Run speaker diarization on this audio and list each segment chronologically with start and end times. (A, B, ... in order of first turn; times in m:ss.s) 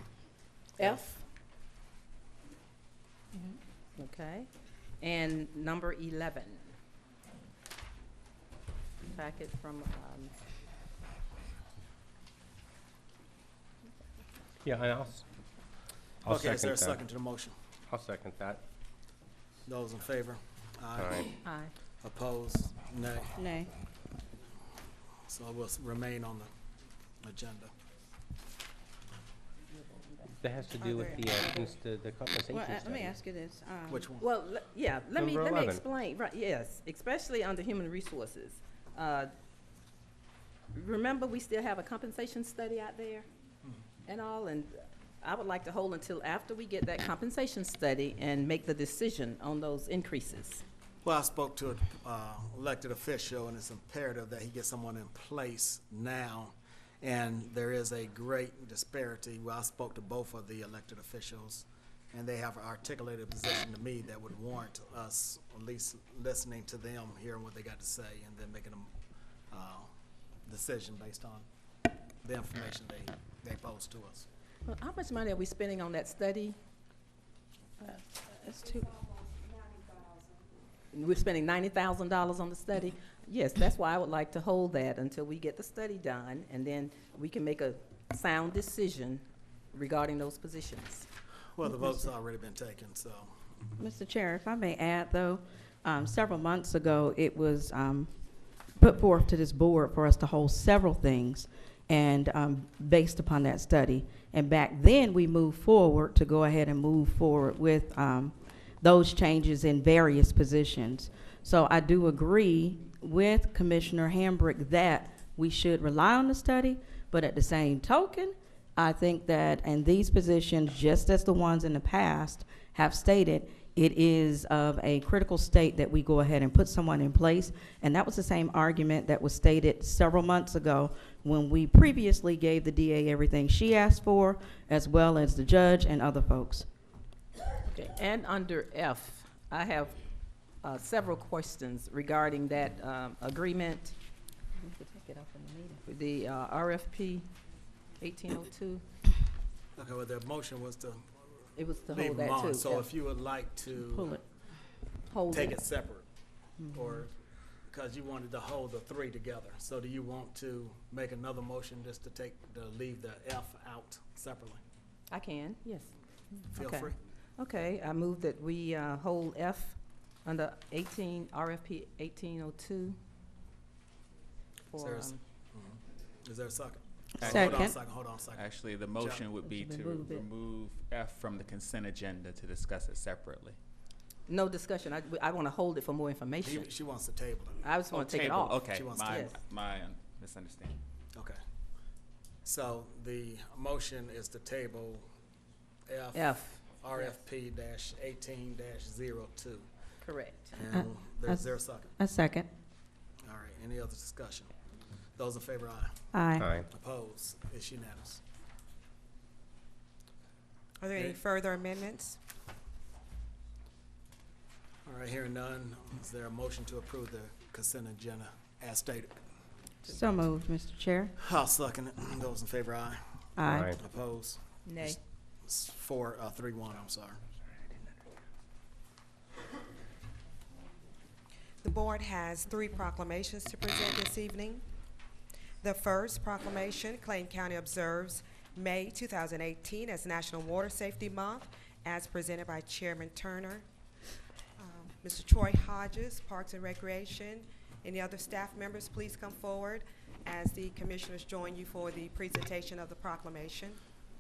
0:00.8-0:01.2 A
0:04.0-0:04.5 B
0:05.0-0:06.7 B
0:09.1-0:10.3 B
0:14.6-0:15.2 C
0:16.2-0:17.0 C
0:16.3-0:17.6 A
0:17.9-0:18.6 C
0:19.7-0:21.4 A
0:21.0-0:21.3 C
0:21.4-0:21.7 B
0:22.0-0:23.3 A
0:23.4-0:23.7 D
0:25.3-0:26.5 A
0:27.2-0:27.7 A
0:30.3-0:33.1 C
0:30.8-0:31.2 D
0:32.5-0:34.1 D
0:33.9-0:34.3 A
0:34.2-0:39.3 B
0:35.1-0:35.8 C
0:40.7-0:43.3 B
0:44.0-0:50.6 B
0:51.0-1:08.9 A
1:09.5-1:09.9 A
1:10.4-1:11.4 A
1:12.2-1:14.3 A
1:14.7-1:16.6 B
1:17.8-1:18.8 D
1:18.5-1:20.4 E
1:20.9-1:31.1 B
1:31.5-1:33.3 A
1:33.8-1:38.1 D
1:38.8-2:16.7 D
2:17.6-2:20.0 B
2:20.6-2:23.9 B
2:24.6-2:25.1 B
2:25.0-2:25.8 D
2:25.7-2:27.3 B
2:28.0-2:28.8 B
2:29.8-2:31.1 A
2:31.6-2:32.9 B
2:31.9-2:34.2 A
2:33.8-2:34.2 D
2:35.1-2:35.6 B
2:35.3-2:36.1 A
2:36.7-2:37.1 A
2:37.7-2:44.6 A
2:45.1-2:45.9 B
2:46.4-2:53.0 B
2:46.5-2:47.0 A
2:54.7-2:55.2 B
2:54.8-2:59.2 A
2:57.2-2:57.8 D
2:57.2-2:57.6 F
2:58.3-3:03.6 F
2:59.4-3:00.2 D
3:04.3-3:06.7 B
3:06.4-3:07.6 A
3:07.6-3:09.4 B
3:07.9-3:10.8 F
3:08.7-3:09.3 A
3:12.4-3:15.0 A
3:15.9-3:19.7 A
3:16.1-3:17.2 B
3:20.0-3:20.5 B
3:20.5-3:22.0 A
3:20.7-3:21.4 D
3:22.0-3:22.5 D
3:23.2-3:24.5 A
3:25.2-3:26.0 A
3:26.1-3:26.5 D
3:26.4-3:26.7 C
3:26.7-3:28.2 A
3:30.8-3:32.2 E
3:34.8-3:39.2 A
3:39.8-3:41.1 D
3:41.2-3:43.0 A
3:43.4-3:43.8 D
3:43.5-3:43.8 C
3:43.8-3:47.2 A
3:44.7-3:45.0 B
3:51.6-3:54.6 E
3:55.6-4:03.6 E
4:04.6-4:13.8 E